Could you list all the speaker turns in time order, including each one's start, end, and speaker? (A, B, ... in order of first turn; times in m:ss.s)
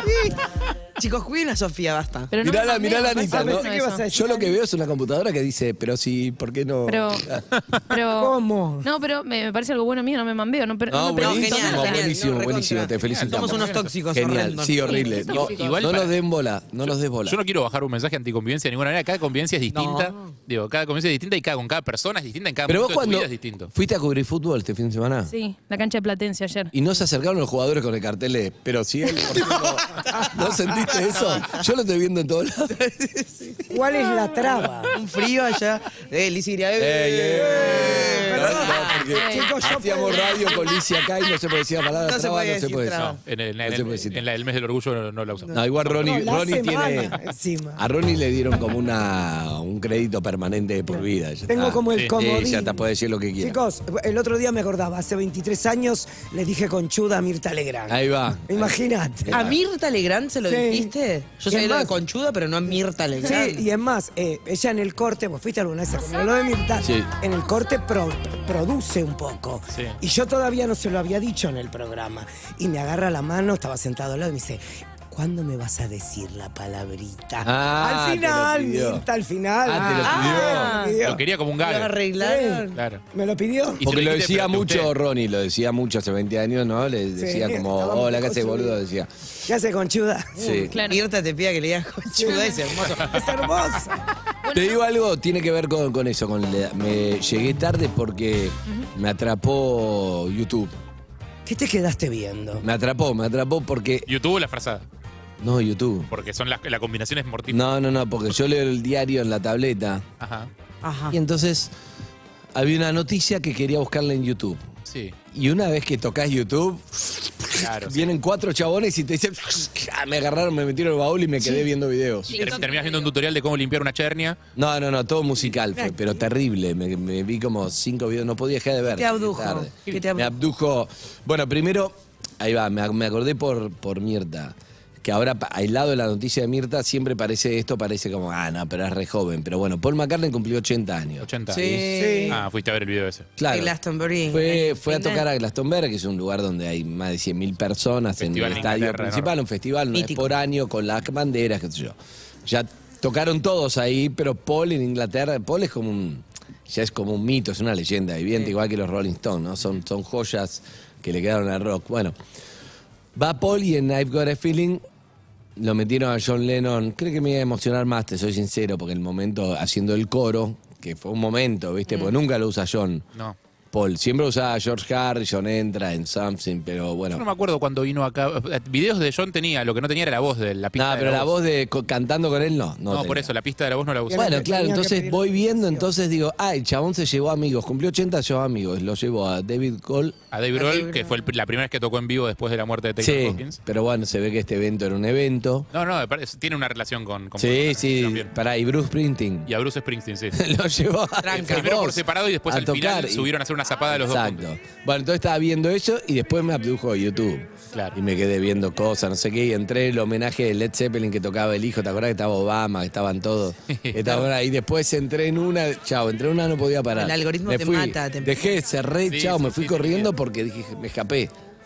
0:01.0-0:02.3 A
0:02.3-0:04.0 B
0:02.4-0:07.4 C
0:03.3-0:04.6 D
0:06.9-0:07.2 B
0:07.6-0:07.8 E
0:07.9-0:12.1 B
0:08.2-0:08.9 D
0:10.9-0:17.4 C
0:11.2-0:15.5 A
0:13.1-0:13.9 E
0:14.8-0:15.9 B
0:15.3-0:16.2 E
0:16.8-0:23.7 E
0:19.7-0:20.1 A
0:22.7-0:25.3 C
0:25.3-0:26.7 B
0:26.7-0:32.8 C
0:30.9-0:31.4 A
0:32.8-0:33.7 A
0:33.7-0:34.9 D
0:34.9-0:39.1 A
0:36.8-0:44.2 C
0:37.4-0:40.7 D
0:39.1-0:39.5 B
0:42.0-0:43.2 A
0:43.2-0:45.5 E
0:45.5-0:47.2 C
0:45.9-0:47.8 D
0:46.3-0:47.0 A
0:47.8-0:53.6 C
0:51.5-0:52.8 D
0:53.4-0:59.6 D
0:57.9-0:59.6 C
0:59.3-1:03.6 A
1:00.4-1:00.9 D
1:01.5-1:02.0 D
1:02.7-1:21.2 D
1:06.8-1:07.1 C
1:17.4-1:19.1 C
1:19.6-1:20.8 C
1:20.0-1:22.8 A
1:21.0-1:22.0 E
1:22.1-1:23.8 D
1:22.7-1:23.0 E
1:23.8-1:24.9 E
1:23.8-1:29.1 C
1:27.2-1:28.8 D
1:29.5-1:30.5 D
1:30.4-1:30.8 C
1:30.4-1:33.2 A
1:30.7-1:31.0 B
1:32.1-1:34.0 D
1:32.9-1:33.5 E
1:34.4-1:34.8 B
1:34.5-1:40.7 C
1:41.4-1:42.6 D
1:42.6-1:44.1 C
1:44.1-1:44.8 E
1:45.4-1:46.1 C
1:46.1-1:47.7 E
1:47.5-1:50.0 C
1:50.2-1:50.5 E
1:50.8-1:51.2 A
1:51.1-1:51.7 C
1:52.6-1:54.6 C
1:54.9-1:55.2 E
1:55.3-2:02.5 C
1:57.6-1:58.1 E
2:02.3-2:03.1 B
2:02.3-2:04.4 E
2:04.6-2:21.9 C
2:08.9-2:10.3 A
2:21.2-2:21.6 E
2:21.5-2:22.4 A
2:21.9-2:22.4 D
2:22.3-2:23.3 E
2:23.4-2:23.7 C
2:23.5-2:25.2 A
2:24.3-2:42.2 C
2:28.2-2:29.3 E
2:29.9-2:30.3 A
2:43.2-2:44.8 C
2:45.6-2:53.0 C
2:53.7-2:57.2 C
2:57.1-3:01.3 E
3:00.8-3:03.3 C
3:02.9-3:04.4 E
3:04.1-3:05.9 D
3:04.1-3:10.2 C
3:10.3-3:13.6 E
3:10.6-3:11.1 A
3:13.0-3:15.7 C
3:15.7-3:18.3 E
3:17.4-3:19.5 C
3:19.5-3:20.4 E
3:20.3-3:41.3 C
3:21.2-3:21.6 A
3:21.3-3:24.4 E
3:33.7-3:34.2 E
3:37.0-3:38.4 A
3:39.1-3:40.1 E